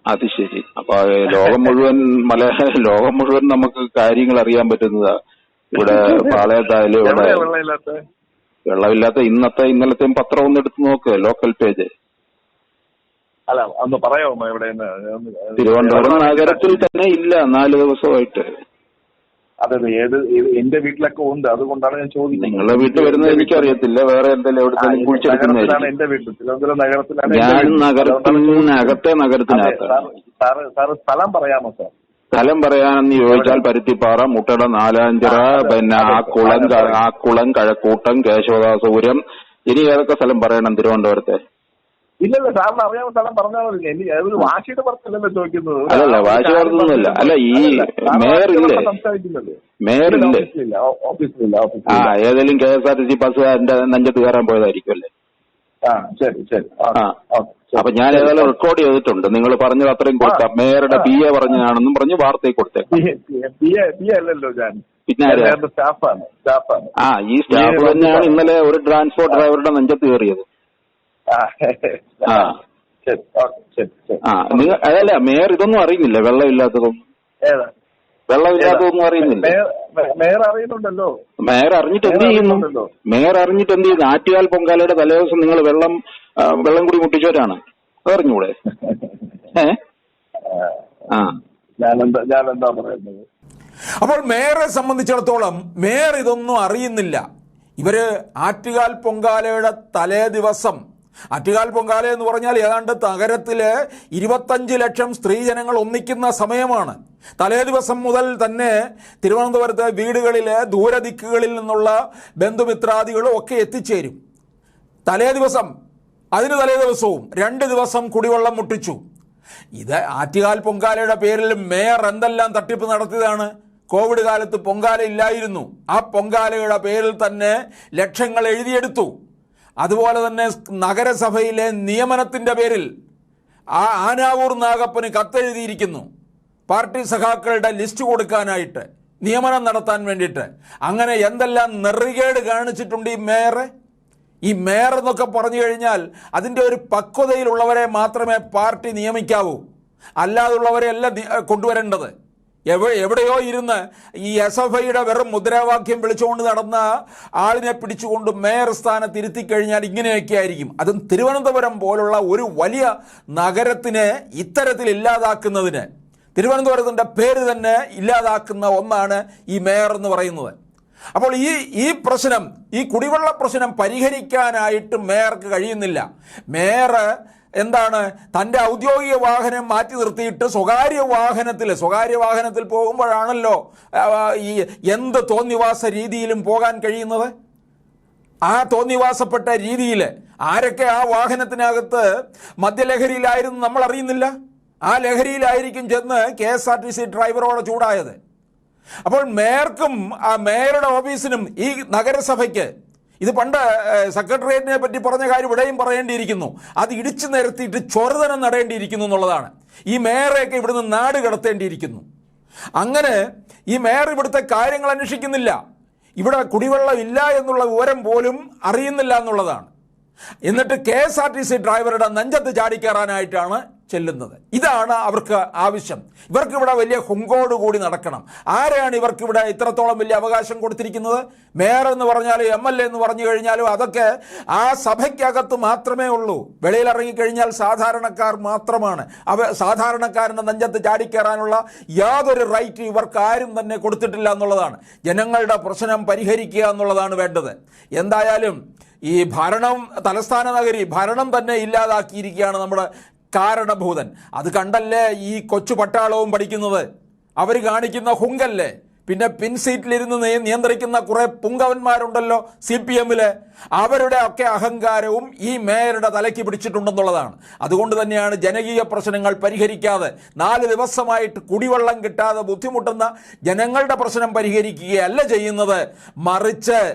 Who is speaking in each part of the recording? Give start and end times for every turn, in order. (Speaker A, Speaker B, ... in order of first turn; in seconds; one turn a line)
Speaker A: 0.1-5.1
Speaker B: 1.4-1.7
Speaker A: 5.7-7.5
Speaker B: 5.8-8.0
Speaker A: 8.7-11.9
Speaker B: 13.5-16.9
Speaker A: 15.6-18.4
Speaker B: 19.6-23.8
Speaker A: 22.4-25.9
Speaker B: 24.8-31.9
Speaker A: 27.3-29.9
Speaker A: 32.3-41.4
Speaker B: 33.2-33.6
Speaker B: 35.2-37.0
Speaker B: 42.2-52.1
Speaker A: 45.9-48.9
Speaker A: 49.8-50.5
Speaker A: 51.9-55.1
Speaker B: 55.9-58.5
Speaker A: 57.8-63.0
Speaker B: 60.2-61.6
Speaker B: 62.9-66.9
Speaker A: 65.1-65.6
Speaker A: 67.0-70.4
Speaker B: 67.5-68.4
Speaker B: 71.3-75.1
Speaker A: 72.3-72.5
Speaker A: 74.2-77.0
Speaker A: 78.3-79.6
Speaker B: 78.6-81.1
Speaker A: 81.4-88.5
Speaker B: 82.0-82.9
Speaker B: 88.8-89.1
Speaker B: 90.5-91.2
Speaker B: 91.8-93.3
Speaker C: 94.0-97.2
Speaker C: 97.8-100.8
Speaker C: 101.3-114.2
Speaker C: 115.1-115.7
Speaker C: 116.4-119.0
Speaker C: 119.8-129.1
Speaker C: 129.8-132.9
Speaker C: 133.8-136.1
Speaker C: 136.7-143.7
Speaker C: 144.5-149.6
Speaker C: 150.2-152.1
Speaker C: 152.7-156.8
Speaker C: 157.4-170.5
Speaker C: 171.2-177.1
Speaker C: 177.6-187.3
Speaker C: 188.5-192.1
Speaker C: 192.6-194.3
Speaker C: 194.9-198.2
Speaker C: 199.1-202.7
Speaker C: 203.2-212.0
Speaker C: 212.8-213.2
Speaker C: 213.7-215.6
Speaker C: 216.2-219.7
Speaker C: 220.5-248.6
Speaker C: 249.1-256.9
Speaker C: 257.4-276.8